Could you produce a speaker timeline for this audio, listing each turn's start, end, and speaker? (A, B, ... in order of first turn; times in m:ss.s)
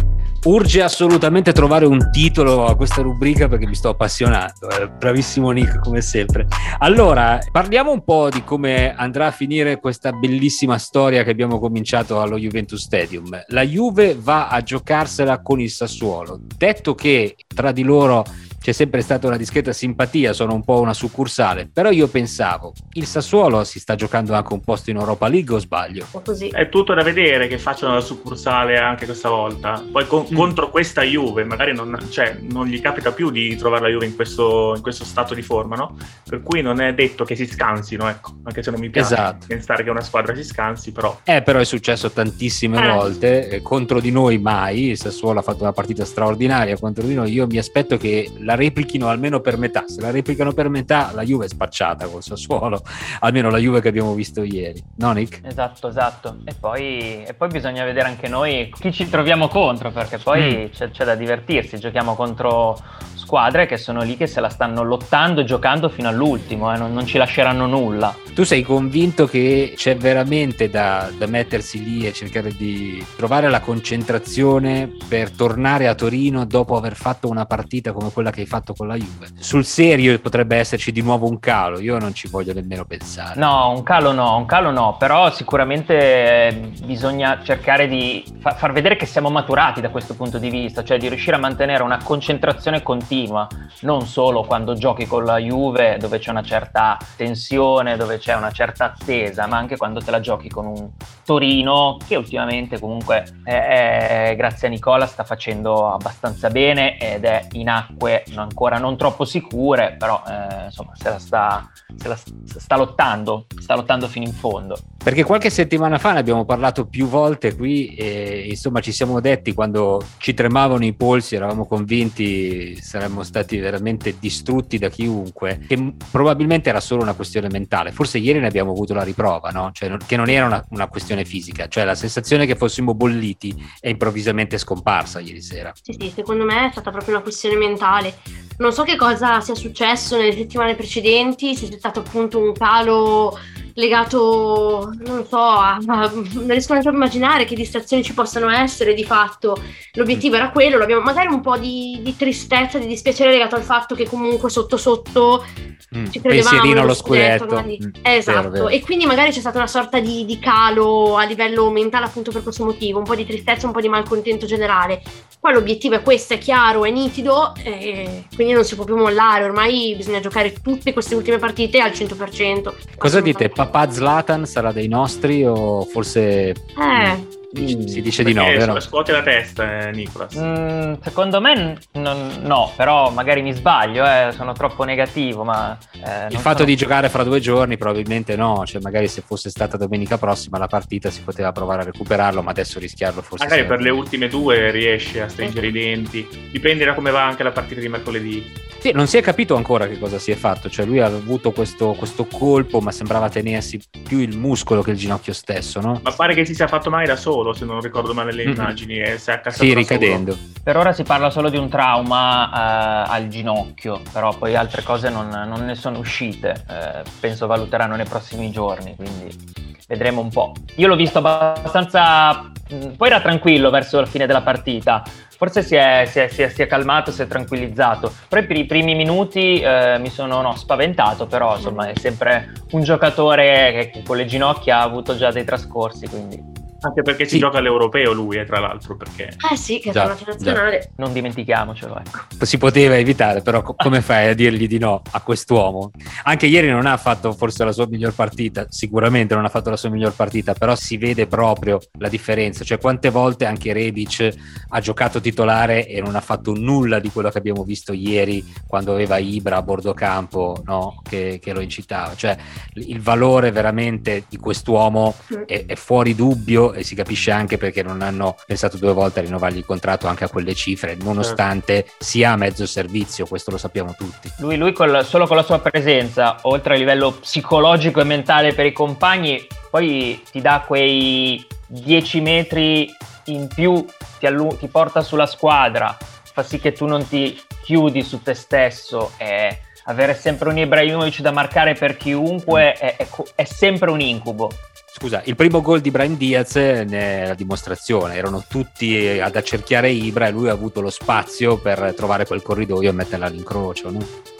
0:00.4-0:26.1 A
0:26.1-0:26.5 B
0:26.5-0:41.2 C
0:30.3-0:30.6 A
0:38.9-0:39.4 A
0:41.3-0:55.4 A
0:42.8-0:43.1 B
0:55.4-1:08.2 D
1:00.3-1:00.6 A
1:08.4-1:23.4 A
1:23.4-1:54.8 D
1:55.0-2:15.8 A
2:15.9-2:35.5 B
2:35.9-2:38.7 A
2:36.1-2:53.6 B
2:53.0-2:58.8 A
2:56.8-2:57.3 B
2:57.6-3:00.5 C
3:00.3-3:06.8 D
3:06.3-3:14.0 A
3:13.4-3:18.5 C
3:15.4-3:15.7 B
3:18.8-3:26.1 A
3:26.0-3:30.2 C
3:28.4-3:28.8 A
3:29.5-3:30.4 A
3:30.6-3:56.4 D
3:51.6-3:52.0 B
3:56.8-3:59.4 C
3:59.4-4:00.9 B
3:59.9-4:00.6 A
4:01.0-4:02.2 D
4:02.4-4:34.3 A
4:34.4-4:54.6 D
4:54.9-5:04.1 A